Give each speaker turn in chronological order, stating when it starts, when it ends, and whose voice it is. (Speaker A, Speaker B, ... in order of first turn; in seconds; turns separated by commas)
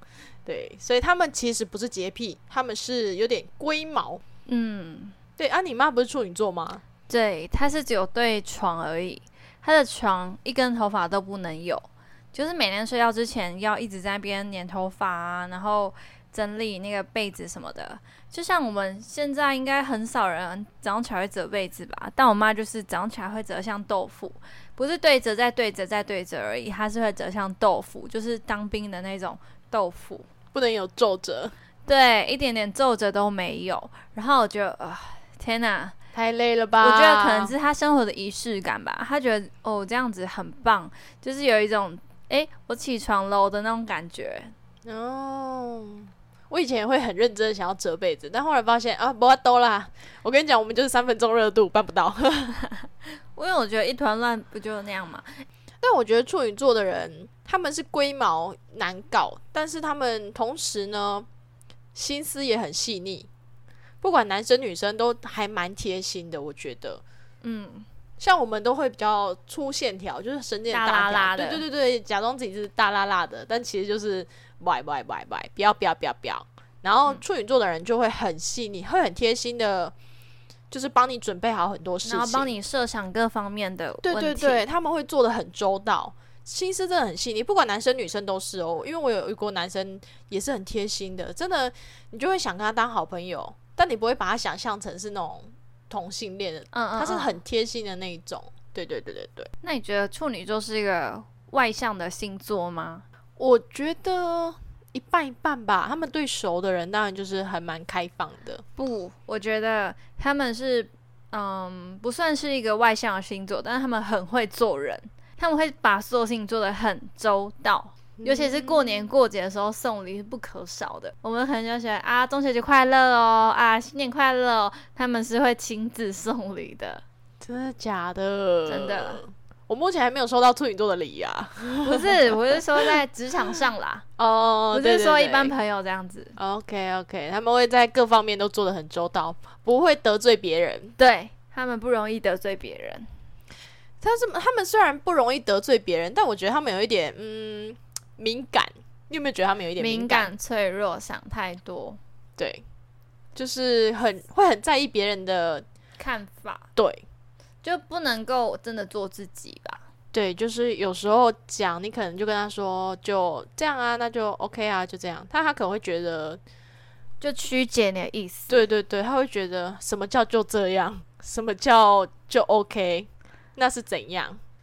Speaker A: 0.5-4.2, Speaker B: 4.5-5.1, Speaker A: 5.4-6.8, Speaker B: 7.1-30.3, Speaker A: 30.5-31.5, Speaker B: 31.9-36.0, Speaker A: 36.1-37.5, Speaker B: 36.8-44.5, Speaker A: 44.9-52.5, Speaker B: 52.7-55.4, Speaker A: 55.8-61.3, Speaker A: 62.0-63.3, Speaker A: 64.0-67.0, Speaker B: 67.4-67.9, Speaker A: 68.2-79.9, Speaker B: 70.7-71.6, Speaker A: 80.7-82.5, Speaker B: 82.0-84.7, Speaker A: 84.0-99.5, Speaker B: 96.7-97.4, Speaker B: 99.6-103.0, Speaker A: 103.4-108.6, Speaker B: 108.8-127.0, Speaker A: 118.2-119.0, Speaker A: 127.4-132.1, Speaker B: 128.7-129.2, Speaker B: 131.8-134.0, Speaker A: 134.2-135.5, Speaker B: 134.7-136.3, Speaker A: 136.4-140.9, Speaker B: 141.0-143.1, Speaker A: 144.0-150.3, Speaker B: 149.8-152.0, Speaker A: 153.3-155.6, Speaker B: 156.0-156.7, Speaker A: 156.8-157.0, Speaker B: 157.6-159.8, Speaker A: 160.1-166.4, Speaker B: 167.2-168.6, Speaker A: 168.5-174.4